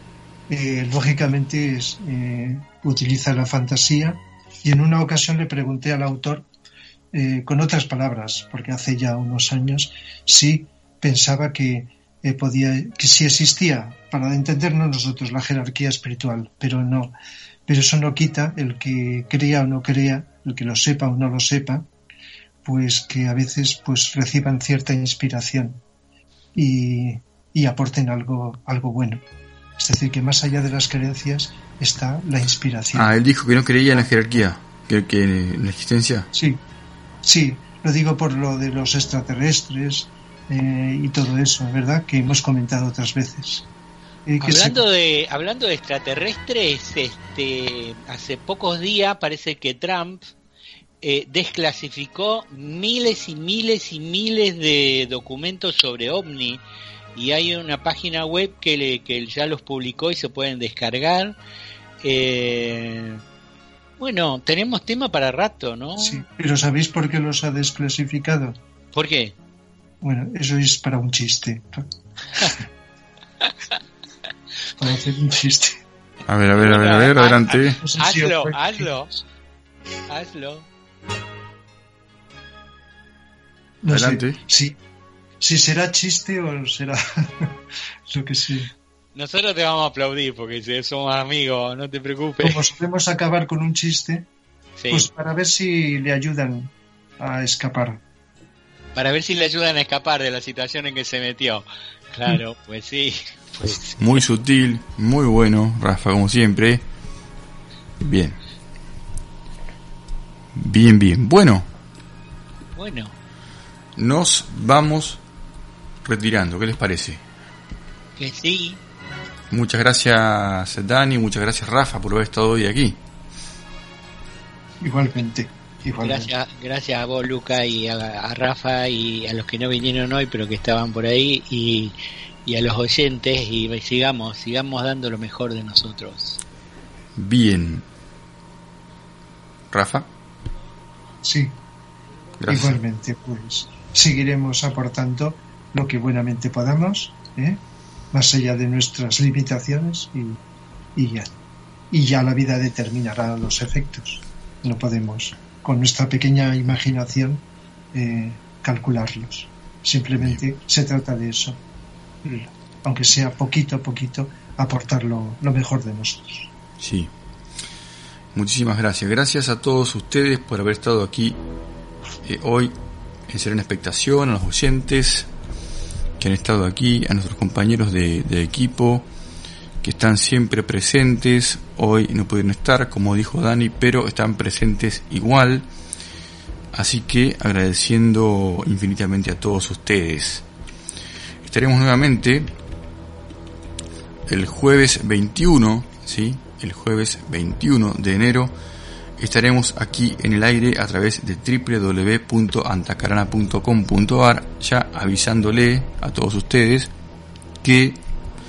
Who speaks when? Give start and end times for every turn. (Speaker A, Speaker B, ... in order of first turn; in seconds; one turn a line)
Speaker A: 0.5-6.5
Speaker A: 7.1-17.1
Speaker A: 17.7-21.9
Speaker A: 22.6-25.8
Speaker A: 26.5-29.2
Speaker A: 29.8-33.1
Speaker B: 32.9-36.3
Speaker A: 36.3-36.6
Speaker A: 37.2-43.6
Speaker A: 44.3-44.8
Speaker C: 44.4-50.3
Speaker C: 51.0-56.6
Speaker C: 57.1-61.4
Speaker C: 62.0-63.2
Speaker C: 64.0-66.2
Speaker A: 66.0-68.6
Speaker C: 68.9-69.3
Speaker A: 70.0-72.6
Speaker A: 74.8-75.8
Speaker B: 76.2-77.8
Speaker C: 76.6-79.1
Speaker A: 77.8-79.2
Speaker C: 80.1-80.7
Speaker A: 83.8-84.8
Speaker B: 83.9-84.4
Speaker A: 85.4-87.6
Speaker A: 88.1-88.7
Speaker C: 89.1-92.6
Speaker A: 92.4-94.3
Speaker C: 94.8-95.1
Speaker A: 94.9-98.0
Speaker C: 98.9-104.2
Speaker B: 104.0-106.8
Speaker B: 108.0-108.4
Speaker B: 110.5-111.7
Speaker C: 112.8-113.1
Speaker B: 114.0-115.2
Speaker B: 116.0-117.2
Speaker C: 118.2-118.8
Speaker B: 119.5-123.0
Speaker A: 124.8-126.3
Speaker C: 126.0-136.4
Speaker B: 137.2-137.8
Speaker B: 139.7-140.1
Speaker A: 141.2-141.6
Speaker B: 142.4-142.8
Speaker A: 142.5-147.6
Speaker A: 148.1-150.4
Speaker A: 150.9-151.3
Speaker A: 151.9-161.6
Speaker A: 162.2-166.5
Speaker B: 166.8-167.1
Speaker B: 168.3-171.4
Speaker B: 172.2-172.7
Speaker B: 173.3-175.3
Speaker B: 176.2-179.0
Speaker B: 179.8-185.7
Speaker B: 186.7-190.4
Speaker B: 191.4-192.5
Speaker B: 194.3-198.5
Speaker B: 199.2-206.9
Speaker B: 207.6-208.0